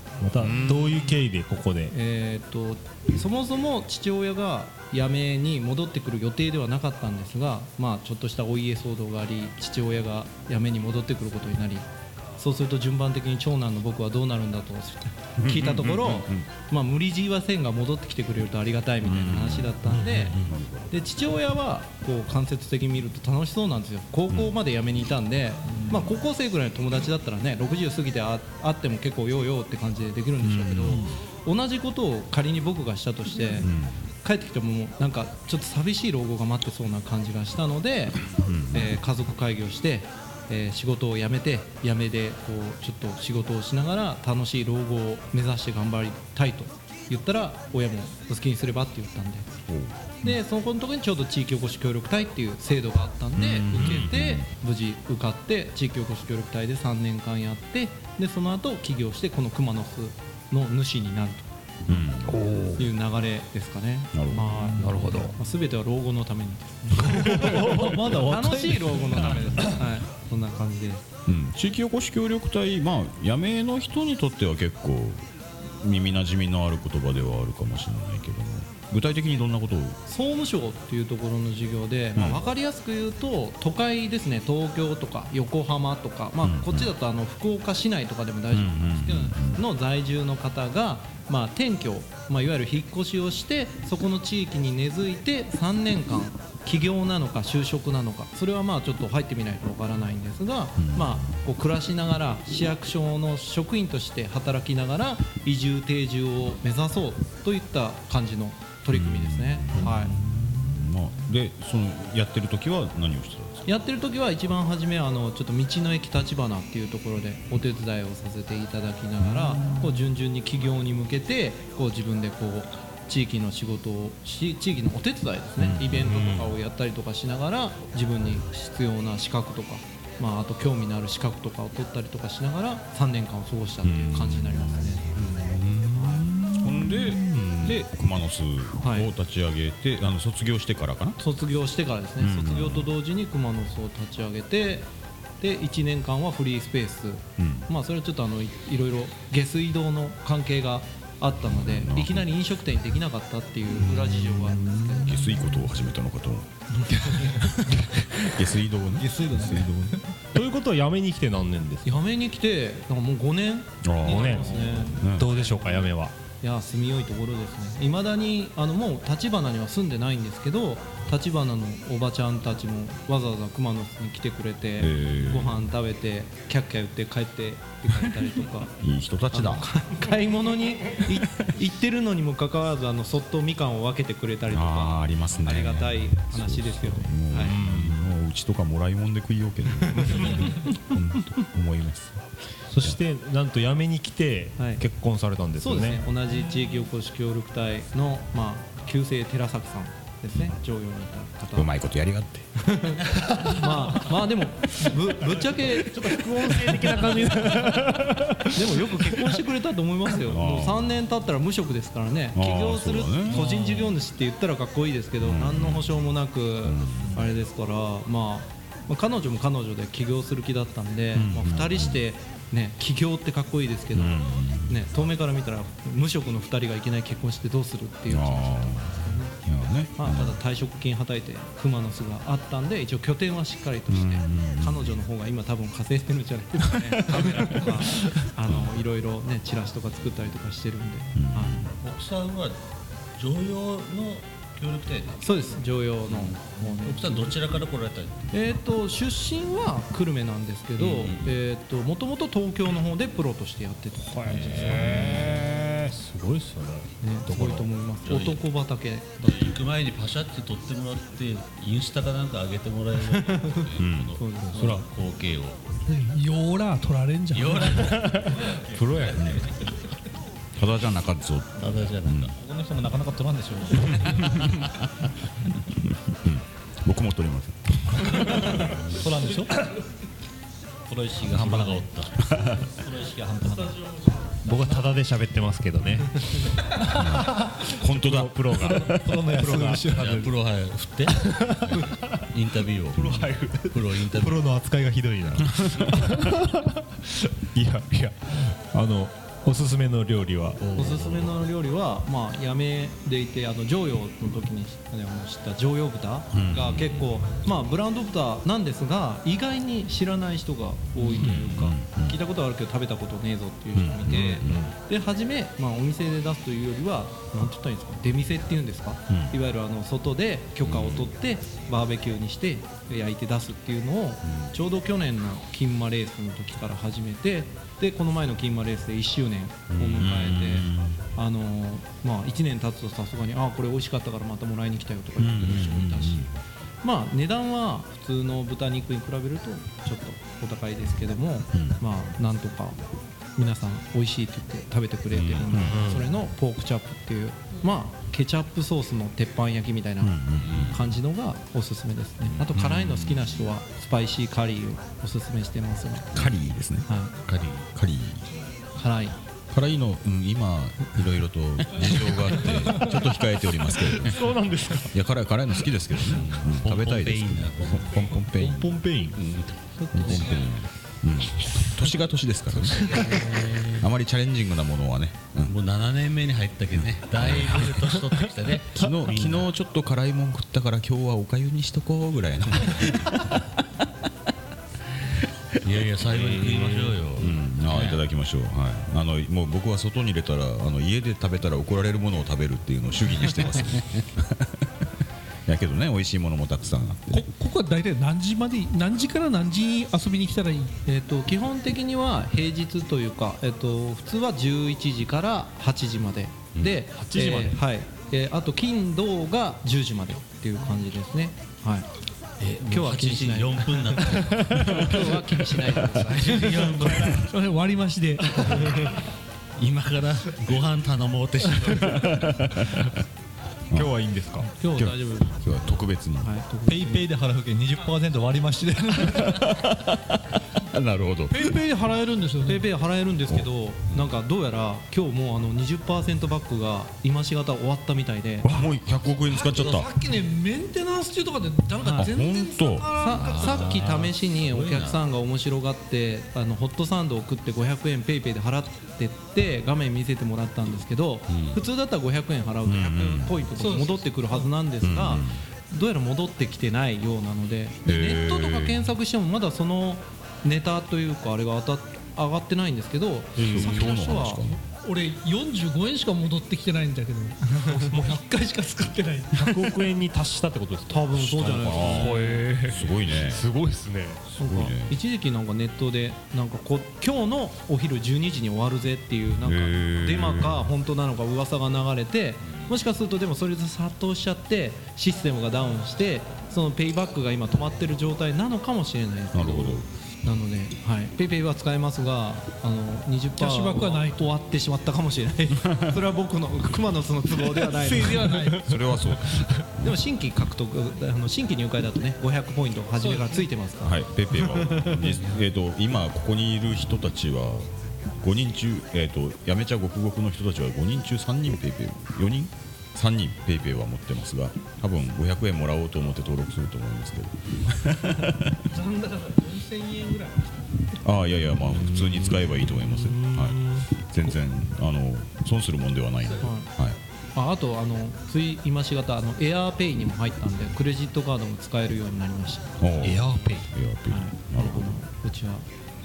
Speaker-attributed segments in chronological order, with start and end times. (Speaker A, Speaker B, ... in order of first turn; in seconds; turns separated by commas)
Speaker A: 0.2-1.9, Speaker B: 0.4-1.2, Speaker C: 1.9-20.4, Speaker B: 15.4-16.5, Speaker B: 19.0-20.9, Speaker A: 19.9-20.4, Speaker C: 20.9-33.7, Speaker B: 30.4-31.1, Speaker B: 33.6-34.0, Speaker C: 34.2-49.6, Speaker B: 38.4-39.0, Speaker B: 49.7-50.4, Speaker C: 50.2-61.5, Speaker B: 53.4-54.5, Speaker A: 53.7-54.0, Speaker B: 61.9-62.4, Speaker A: 62.2-62.9, Speaker C: 62.8-71.1, Speaker B: 64.1-64.7, Speaker A: 64.8-65.3, Speaker A: 67.0-69.2, Speaker B: 69.1-69.8, Speaker B: 71.3-80.0, Speaker C: 80.1-110.2, Speaker B: 82.2-82.4, Speaker B: 86.4-86.9, Speaker B: 88.5-89.6, Speaker B: 100.8-101.4, Speaker B: 108.9-113.7, Speaker C: 113.7-136.3, Speaker B: 119.2-120.0, Speaker B: 125.6-126.5, Speaker B: 133.8-141.2, Speaker A: 136.3-137.7, Speaker C: 138.8-139.1, Speaker C: 141.2-144.9, Speaker B: 142.2-142.9, Speaker C: 145.4-155.1, Speaker B: 147.4-147.7, Speaker B: 151.4-152.3, Speaker A: 153.9-155.2, Speaker B: 155.1-156.6, Speaker A: 157.0-157.6, Speaker B: 157.1-159.7, Speaker A: 159.0-162.0, Speaker D: 159.1-159.8, Speaker C: 161.8-178.7, Speaker B: 163.8-165.3, Speaker A: 164.0-166.1, Speaker B: 174.8-175.6, Speaker B: 178.8-179.7, Speaker C: 179.3-187.6, Speaker B: 184.5-192.2, Speaker A: 187.4-188.0, Speaker C: 189.9-190.6, Speaker A: 192.7-196.0, Speaker C: 194.6-194.8, Speaker C: 195.6-201.7, Speaker B: 201.5-202.5, Speaker C: 202.6-206.9, Speaker A: 205.3-209.1, Speaker C: 208.4-229.4, Speaker B: 210.2-211.0, Speaker B: 212.3-213.5, Speaker A: 213.3-213.8, Speaker B: 215.2-215.9, Speaker B: 216.6-217.2, Speaker B: 221.1-222.0, Speaker B: 223.9-224.9, Speaker B: 228.1-230.4, Speaker C: 230.0-241.6, Speaker B: 233.9-235.0, Speaker B: 237.1-237.7, Speaker B: 241.2-241.8, Speaker E: 241.8-242.6, Speaker E: 243.2-245.3, Speaker C: 245.2-247.2, Speaker E: 246.1-248.3, Speaker C: 248.3-254.8, Speaker E: 250.8-251.4, Speaker A: 254.1-257.7, Speaker E: 254.3-255.4, Speaker C: 257.0-259.6, Speaker E: 258.1-258.4, Speaker E: 259.2-265.6, Speaker C: 263.1-263.6, Speaker B: 263.8-264.2, Speaker C: 264.2-264.8, Speaker A: 264.5-264.9, Speaker F: 265.9-268.2, Speaker E: 267.3-269.6, Speaker B: 268.8-269.6, Speaker B: 270.6-272.3, Speaker E: 271.6-272.3, Speaker D: 272.3-274.4, Speaker B: 273.9-274.7, Speaker B: 275.7-278.8, Speaker E: 278.6-279.0, Speaker D: 278.9-279.6, Speaker D: 280.9-283.9, Speaker E: 281.2-282.1, Speaker B: 282.2-282.6, Speaker A: 284.4-290.3, Speaker B: 286.9-289.3, Speaker D: 289.2-290.0, Speaker E: 289.9-294.4, Speaker A: 291.1-292.2, Speaker A: 292.9-296.8, Speaker A: 297.5-300.6, Speaker E: 300.6-301.4, Speaker C: 300.7-336.3, Speaker B: 306.3-306.9, Speaker B: 311.0-312.2, Speaker B: 313.7-314.6, Speaker A: 314.1-314.7, Speaker B: 319.1-319.4, Speaker B: 320.6-321.1, Speaker E: 329.7-330.0, Speaker B: 330.0-331.0, Speaker B: 335.2-336.3, Speaker C: 336.8-342.8, Speaker B: 341.5-341.8, Speaker C: 343.4-356.1, Speaker E: 345.1-345.5, Speaker B: 345.5-345.9, Speaker A: 345.5-346.1, Speaker B: 350.0-350.8, Speaker E: 350.4-350.8, Speaker B: 352.5-353.4, Speaker B: 356.1-356.9, Speaker C: 356.9-357.1, Speaker E: 357.3-357.7, Speaker B: 357.7-358.2, Speaker C: 358.8-359.2, Speaker B: 359.5-364.3, Speaker A: 363.8-365.0, Speaker B: 364.9-368.8, Speaker E: 366.1-368.1, Speaker A: 368.2-370.4, Speaker E: 369.2-369.5, Speaker B: 369.9-375.6, Speaker E: 370.0-370.4, Speaker E: 372.7-373.7, Speaker E: 375.5-379.5, Speaker B: 376.8-378.0, Speaker B: 378.7-383.4, Speaker A: 378.8-379.2, Speaker E: 385.6-388.0, Speaker A: 386.1-387.0, Speaker B: 387.2-394.7, Speaker B: 395.5-397.3, Speaker F: 397.1-400.8, Speaker C: 400.9-411.9, Speaker A: 407.0-407.6, Speaker E: 412.4-417.3, Speaker C: 412.6-416.9, Speaker F: 416.9-418.9, Speaker E: 419.6-422.4, Speaker B: 421.8-422.9, Speaker A: 423.7-424.5, Speaker C: 424.5-427.1, Speaker B: 424.7-426.4, Speaker D: 426.7-429.2, Speaker B: 429.1-431.6, Speaker F: 431.3-432.6, Speaker C: 432.5-438.5, Speaker B: 438.4-439.9, Speaker F: 439.3-443.9, Speaker C: 441.8-442.1, Speaker B: 441.9-442.9, Speaker C: 442.9-464.4, Speaker E: 443.1-445.0, Speaker E: 451.3-451.6, Speaker B: 452.6-453.4, Speaker F: 453.6-454.5, Speaker B: 454.8-455.4, Speaker B: 457.9-458.9, Speaker A: 463.4-464.0, Speaker B: 463.4-464.6, Speaker F: 464.7-469.6, Speaker A: 469.3-474.2, Speaker C: 470.9-472.4, Speaker B: 471.1-473.5, Speaker C: 474.4-498.6, Speaker B: 474.4-474.9, Speaker B: 479.4-480.7, Speaker B: 489.3-489.9, Speaker F: 493.4-494.3, Speaker B: 495.6-496.0, Speaker F: 497.7-499.4, Speaker B: 498.6-500.0, Speaker C: 499.8-505.4, Speaker F: 503.0-503.4, Speaker B: 503.8-518.7, Speaker F: 518.7-520.6, Speaker B: 521.0-527.0, Speaker A: 521.6-523.9, Speaker C: 526.4-526.7, Speaker C: 527.4-532.8, Speaker B: 532.8-535.0, Speaker A: 533.0-533.7, Speaker C: 534.1-535.7